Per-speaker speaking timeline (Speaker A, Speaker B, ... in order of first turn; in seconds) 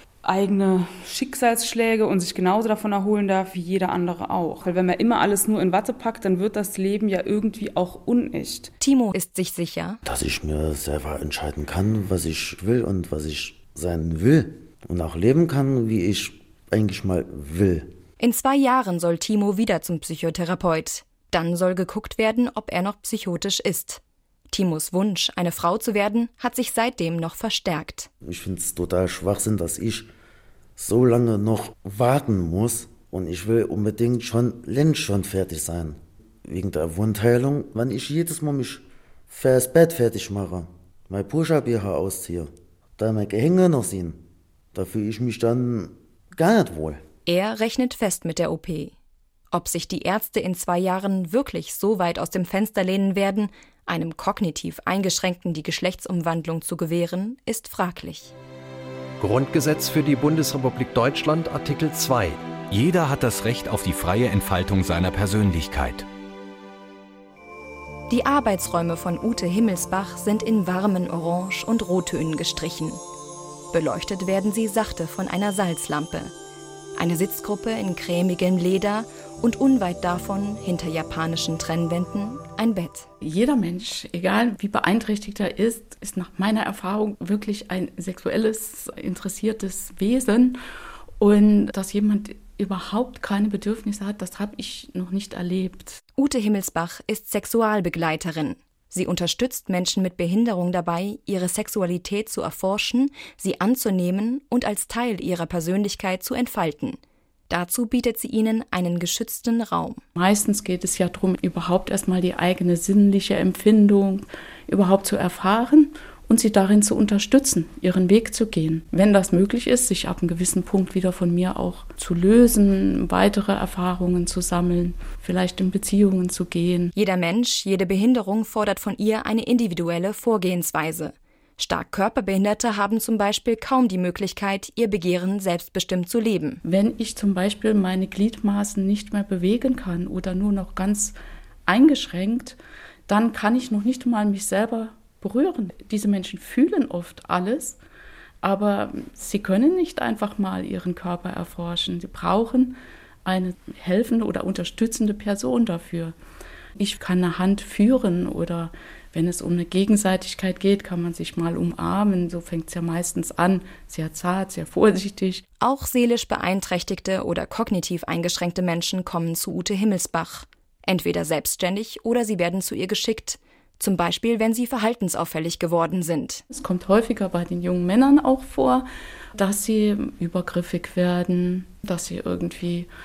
Speaker A: 0.2-8.7
Speaker B: 8.8-10.0, 18.2-28.1, 47.2-48.9, 49.5-58.3, 68.1-73.0, 73.7-76.3, 77.0-83.1, 96.2-110.0, 126.9-136.6, 165.6-176.4
Speaker C: 10.0-17.9, 28.2-30.1, 30.8-44.2, 44.7-47.0
Speaker D: 59.2-62.4
Speaker E: 62.7-66.0
Speaker F: 83.2-90.6, 91.2-96.0, 110.2-126.9, 136.6-141.1, 141.7-142.6, 143.1-147.8, 148.4-156.1, 156.8-165.4, 176.5-182.9